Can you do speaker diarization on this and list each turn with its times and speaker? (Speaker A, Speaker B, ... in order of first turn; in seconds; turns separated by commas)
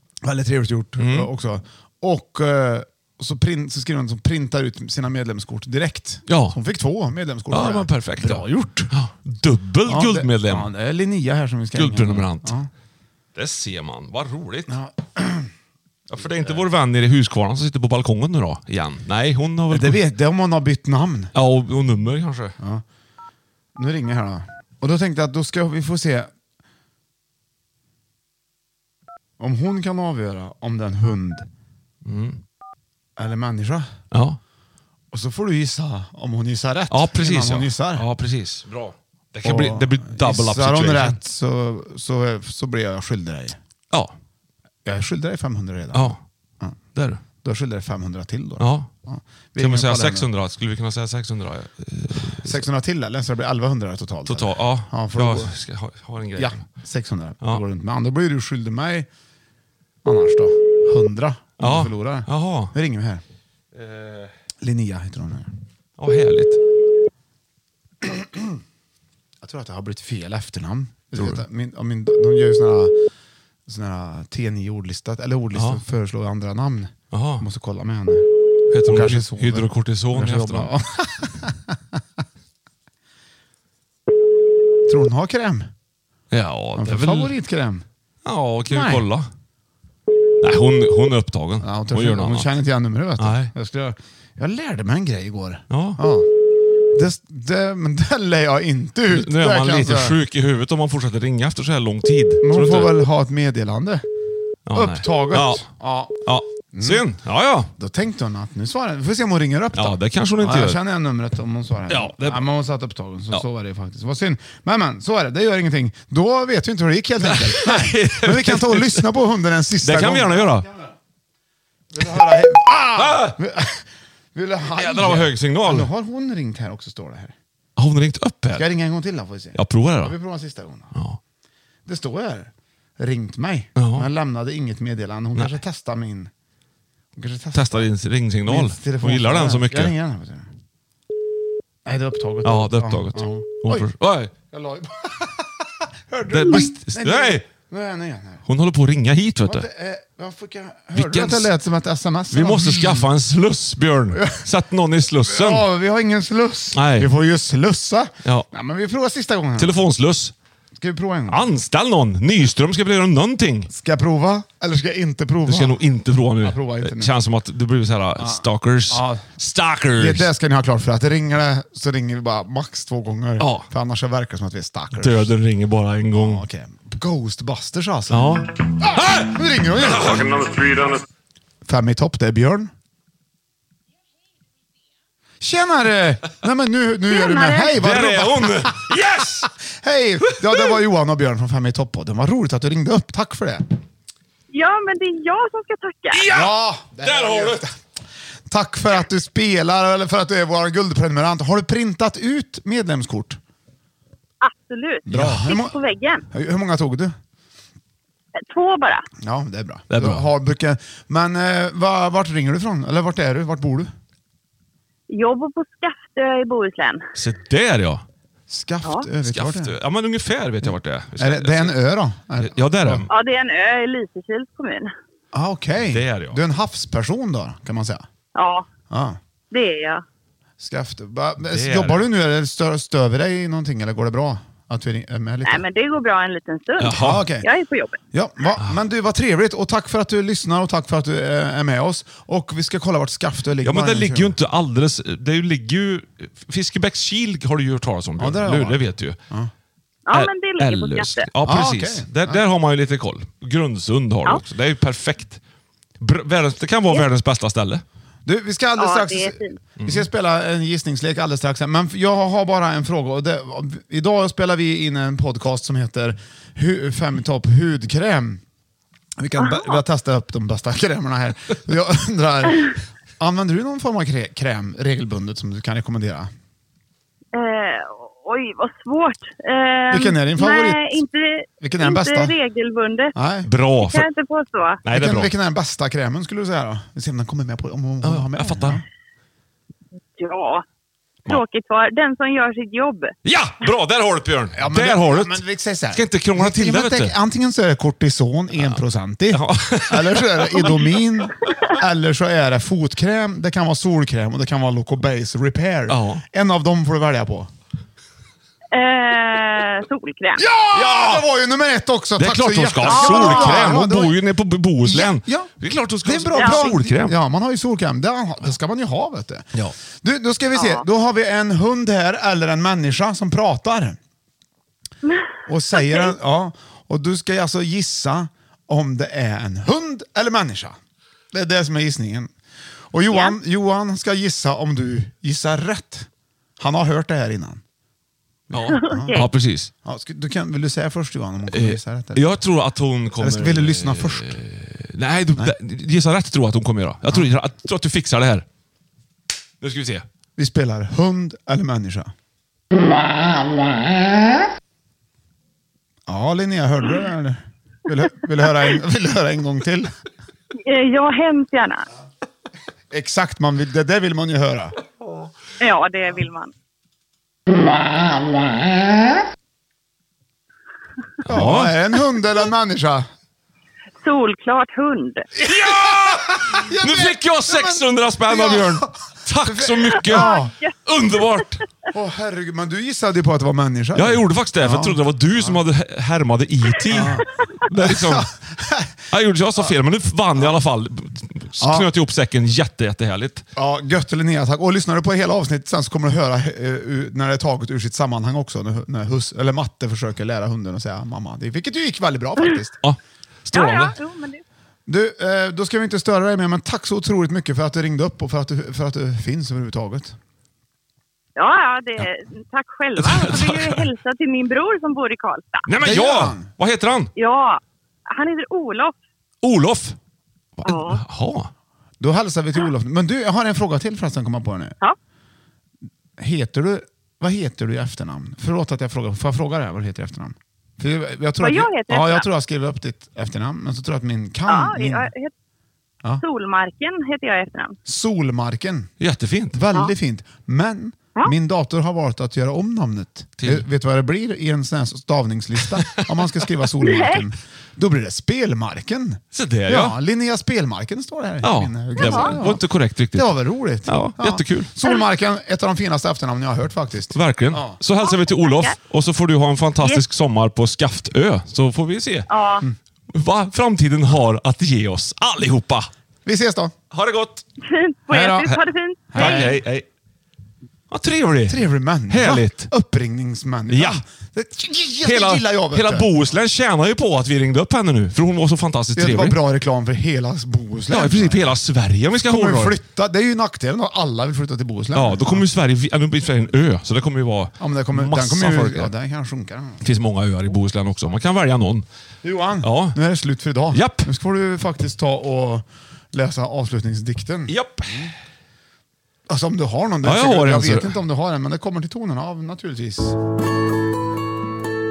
Speaker A: 0.2-8.9, Speaker B: 1.0-1.3, Speaker B: 6.3-6.6, Speaker B: 7.5-10.7, Speaker A: 9.9-12.7, Speaker B: 11.8-12.5, Speaker B: 13.4-14.7, Speaker A: 14.7-15.5, Speaker B: 16.1-20.0, Speaker A: 16.2-16.6, Speaker A: 19.7-21.3, Speaker B: 21.4-22.6, Speaker A: 22.6-22.8, Speaker A: 23.8-26.3, Speaker A: 29.4-31.5, Speaker B: 32.0-32.4, Speaker A: 33.2-33.9, Speaker B: 34.1-34.4, Speaker A: 35.1-38.1, Speaker B: 36.9-41.2, Speaker A: 39.4-43.6, Speaker A: 44.9-46.8, Speaker B: 45.9-46.2, Speaker B: 47.0-47.2, Speaker A: 47.4-50.3, Speaker B: 48.6-48.9, Speaker B: 49.6-52.6, Speaker A: 52.4-55.5, Speaker B: 54.3-56.6, Speaker A: 56.4-59.1, Speaker A: 60.0-63.2, Speaker B: 61.6-62.7, Speaker B: 63.8-64.3, Speaker A: 64.6-65.5, Speaker B: 66.0-66.6, Speaker A: 68.0-68.6, Speaker A: 69.4-73.0, Speaker B: 71.2-71.4, Speaker A: 73.7-78.3, Speaker B: 75.5-75.8, Speaker B: 77.1-77.5, Speaker B: 78.7-80.7, Speaker A: 78.8-81.8, Speaker A: 84.9-85.7, Speaker B: 86.3-87.3, Speaker A: 86.8-87.9, Speaker B: 88.2-89.3, Speaker A: 88.7-89.0, Speaker B: 90.4-92.5, Speaker A: 91.6-96.3, Speaker B: 93.2-93.5, Speaker B: 95.7-96.0, Speaker A: 96.9-100.2, Speaker B: 99.1-103.0, Speaker A: 102.4-104.0, Speaker B: 104.7-105.7, Speaker A: 104.7-107.0, Speaker B: 106.2-107.7, Speaker A: 107.8-120.9, Speaker B: 109.8-110.8, Speaker B: 111.9-112.4, Speaker B: 117.2-119.1, Speaker B: 119.8-120.7, Speaker A: 121.9-127.3, Speaker B: 123.0-123.4, Speaker B: 124.8-125.9, Speaker B: 127.8-128.7, Speaker A: 128.5-130.9, Speaker B: 129.6-130.2, Speaker A: 131.9-136.3, Speaker B: 133.8-134.1, Speaker A: 137.2-137.9, Speaker B: 137.5-139.9, Speaker A: 138.5-140.5, Speaker A: 141.8-143.9, Speaker B: 142.4-144.3, Speaker A: 144.5-148.4, Speaker B: 146.3-147.4, Speaker B: 148.5-149.7, Speaker A: 149.4-153.1, Speaker B: 150.9-151.5, Speaker B: 152.3-155.7, Speaker A: 154.1-154.4, Speaker A: 155.3-159.7, Speaker B: 156.8-157.1, Speaker B: 159.6-160.3, Speaker A: 160.8-161.5, Speaker B: 161.3-163.7, Speaker A: 163.7-165.8, Speaker B: 165.4-170.3, Speaker A: 166.4-167.1, Speaker A: 168.2-169.2, Speaker A: 170.0-175.3, Speaker B: 173.4-173.7, Speaker B: 175.0-176.4, Speaker A: 176.1-180.7, Speaker B: 178.1-180.8, Speaker A: 181.7-182.7, Speaker A: 185.4-188.9, Speaker C: 187.1-187.7, Speaker B: 187.7-189.5, Speaker A: 189.7-193.8, Speaker B: 190.3-190.7, Speaker C: 194.5-196.2, Speaker B: 196.1-197.7, Speaker A: 196.3-197.7, Speaker A: 198.5-203.4, Speaker C: 204.4-206.2, Speaker A: 205.1-205.8, Speaker B: 205.1-205.4, Speaker A: 206.3-207.2, Speaker C: 208.5-209.1, Speaker A: 209.2-213.9, Speaker B: 209.9-210.2, Speaker C: 215.1-217.1, Speaker B: 217.2-218.0, Speaker A: 218.5-219.7, Speaker B: 219.2-221.8, Speaker A: 221.2-223.1, Speaker B: 222.4-223.1, Speaker C: 223.1-224.9, Speaker A: 225.3-228.1, Speaker B: 225.9-226.4, Speaker C: 228.3-228.7, Speaker A: 228.9-229.2, Speaker C: 229.5-230.0, Speaker A: 230.6-235.7, Speaker B: 231.5-232.0, Speaker C: 235.4-238.0, Speaker B: 236.8-237.3, Speaker A: 236.9-237.5, Speaker A: 238.1-244.3, Speaker B: 243.6-249.2, Speaker A: 248.2-249.5, Speaker C: 250.1-251.3, Speaker B: 250.1-255.4, Speaker A: 251.4-252.4, Speaker B: 256.0-257.8, Speaker A: 258.2-268.4, Speaker C: 258.8-259.6, Speaker B: 259.8-260.1, Speaker A: 269.2-276.3, Speaker C: 269.4-269.8, Speaker C: 277.3-283.1, Speaker A: 279.9-281.0, Speaker A: 281.6-282.4, Speaker A: 283.1-283.5, Speaker B: 283.4-284.1, Speaker C: 283.8-284.8, Speaker B: 284.9-285.3, Speaker A: 284.9-288.8, Speaker B: 288.0-288.8, Speaker C: 290.2-290.6, Speaker C: 291.3-293.1, Speaker B: 293.2-297.1, Speaker A: 294.5-307.5, Speaker B: 298.6-300.9, Speaker B: 305.9-306.2, Speaker C: 308.7-310.4, Speaker A: 310.4-314.2, Speaker B: 310.7-311.2, Speaker B: 312.2-317.1, Speaker C: 312.9-313.5, Speaker A: 314.8-315.5, Speaker A: 316.0-319.5, Speaker C: 316.4-316.8, Speaker A: 320.0-324.0, Speaker C: 320.6-320.9, Speaker C: 325.1-326.1, Speaker A: 325.5-330.8, Speaker A: 331.3-332.3, Speaker A: 332.9-337.6, Speaker C: 333.1-333.4, Speaker B: 338.5-339.7, Speaker A: 338.5-339.3, Speaker C: 338.8-339.3, Speaker A: 339.8-342.3, Speaker B: 341.5-348.4, Speaker A: 343.2-344.4, Speaker B: 349.6-350.1, Speaker A: 350.4-352.1, Speaker A: 356.1-359.9, Speaker C: 360.6-361.9, Speaker A: 362.9-364.7, Speaker C: 365.6-366.5, Speaker A: 371.2-373.1, Speaker B: 371.3-371.7, Speaker C: 374.0-375.3, Speaker A: 375.4-378.9, Speaker B: 375.4-380.3, Speaker A: 379.4-380.5, Speaker C: 380.1-380.8, Speaker B: 380.9-381.6, Speaker A: 381.9-385.6, Speaker B: 384.0-388.3, Speaker A: 386.9-387.2, Speaker A: 387.8-388.9, Speaker B: 389.1-393.4, Speaker A: 391.6-391.9, Speaker A: 393.6-402.8, Speaker B: 402.8-404.0, Speaker C: 403.5-404.4, Speaker A: 404.9-410.2, Speaker C: 411.4-415.7, Speaker B: 413.0-413.9, Speaker B: 415.7-417.1, Speaker A: 415.8-416.5, Speaker C: 417.2-419.0, Speaker B: 419.4-420.0, Speaker B: 420.6-421.5, Speaker C: 420.7-421.0, Speaker A: 422.0-424.8, Speaker A: 426.2-435.1, Speaker C: 431.4-432.3, Speaker C: 434.5-435.3, Speaker C: 436.2-437.8, Speaker A: 437.9-438.9, Speaker B: 439.0-439.6, Speaker A: 439.6-452.6, Speaker B: 443.4-443.6, Speaker B: 445.8-446.1, Speaker C: 446.9-447.2, Speaker B: 449.3-450.0, Speaker B: 451.4-453.4, Speaker C: 452.0-452.3, Speaker A: 453.1-457.8, Speaker B: 453.9-454.7, Speaker B: 457.1-462.3, Speaker C: 458.0-458.8, Speaker C: 462.3-462.6, Speaker B: 463.1-465.9, Speaker A: 466.2-466.7, Speaker B: 466.9-467.4, Speaker C: 467.7-469.5, Speaker A: 468.1-468.5, Speaker A: 469.1-469.6, Speaker B: 469.1-469.9, Speaker B: 470.9-472.7, Speaker A: 471.5-476.1, Speaker B: 473.7-474.0, Speaker B: 475.0-479.4, Speaker A: 479.0-481.5, Speaker B: 480.9-482.8, Speaker A: 482.2-485.4, Speaker B: 484.9-488.9, Speaker A: 487.6-489.8, Speaker B: 489.8-491.9, Speaker A: 492.2-498.1, Speaker B: 492.6-493.0, Speaker B: 493.7-494.1, Speaker B: 497.5-498.1, Speaker A: 499.3-503.2, Speaker B: 500.0-501.0